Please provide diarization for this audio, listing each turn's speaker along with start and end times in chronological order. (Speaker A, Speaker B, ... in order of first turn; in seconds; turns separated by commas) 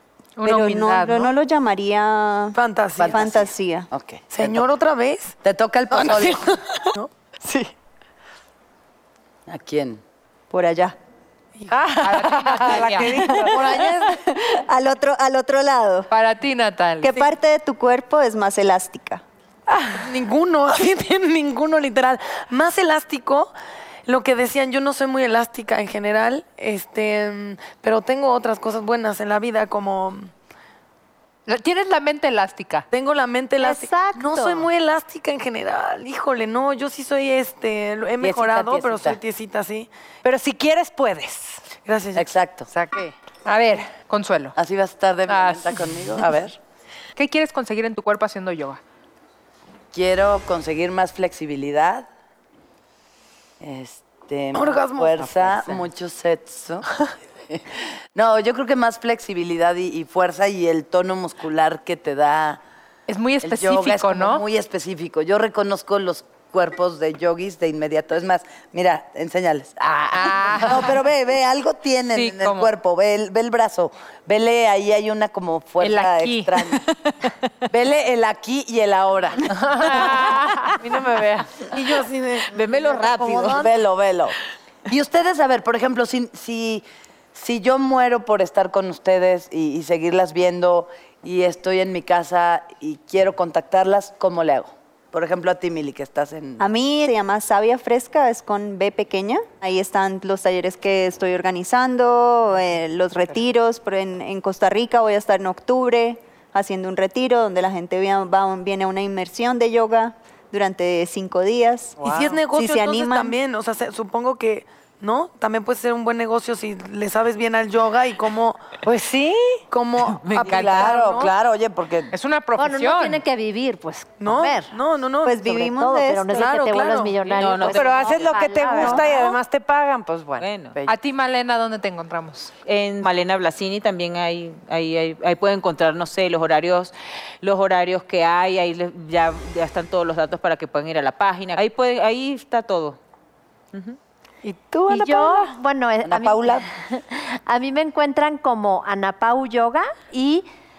Speaker A: 0.4-1.3, Speaker B: 0.4-2.6, Speaker C: 2.5-3.2, Speaker D: 3.0-4.6, Speaker B: 3.1-3.9, Speaker C: 4.3-5.4, Speaker D: 5.4-6.5, Speaker C: 6.0-7.1, Speaker D: 9.5-10.0, Speaker B: 10.5-11.0, Speaker E: 11.7-13.9, Speaker A: 12.0-13.5, Speaker C: 12.8-14.2, Speaker B: 14.0-16.1, Speaker A: 16.1-17.2, Speaker B: 17.0-19.2, Speaker C: 19.9-23.5, Speaker C: 24.1-30.3, Speaker A: 31.5-32.9, Speaker C: 32.9-39.9, Speaker F: 33.6-34.7, Speaker D: 38.2-39.2, Speaker E: 40.2-41.6, Speaker C: 41.8-42.3, Speaker D: 42.2-42.7, Speaker E: 42.7-43.1, Speaker A: 43.5-44.6, Speaker D: 44.6-46.6, Speaker A: 45.3-45.8, Speaker A: 47.1-48.8, Speaker D: 49.9-52.1, Speaker D: 53.6-56.9, Speaker C: 54.5-55.5, Speaker D: 58.1-62.6, Speaker A: 63.1-64.4, Speaker D: 63.4-76.9, Speaker A: 70.1-71.0, Speaker A: 72.1-72.7, Speaker A: 75.8-76.7, Speaker D: 77.7-80.4, Speaker A: 79.7-80.8, Speaker E: 80.8-81.6, Speaker C: 81.7-82.8, Speaker G: 82.5-83.7, Speaker D: 83.2-84.3, Speaker D: 84.9-96.7, Speaker B: 96.6-113.4, Speaker E: 112.0-112.4, Speaker C: 112.0-118.6, Speaker E: 118.8-119.6, Speaker C: 119.7-121.3, Speaker G: 120.2-121.1, Speaker D: 120.4-122.1, Speaker A: 122.1-123.2, Speaker F: 122.6-124.7, Speaker C: 124.2-125.4, Speaker B: 125.2-126.7, Speaker F: 125.4-129.2, Speaker E: 126.3-131.0, Speaker C: 126.4-126.9, Speaker G: 127.3-129.2, Speaker G: 130.4-130.8, Speaker A: 130.9-132.5, Speaker G: 132.7-143.0, Speaker G: 143.7-144.0, Speaker E: 144.4-145.5, Speaker F: 144.9-150.5, Speaker D: 146.0-146.7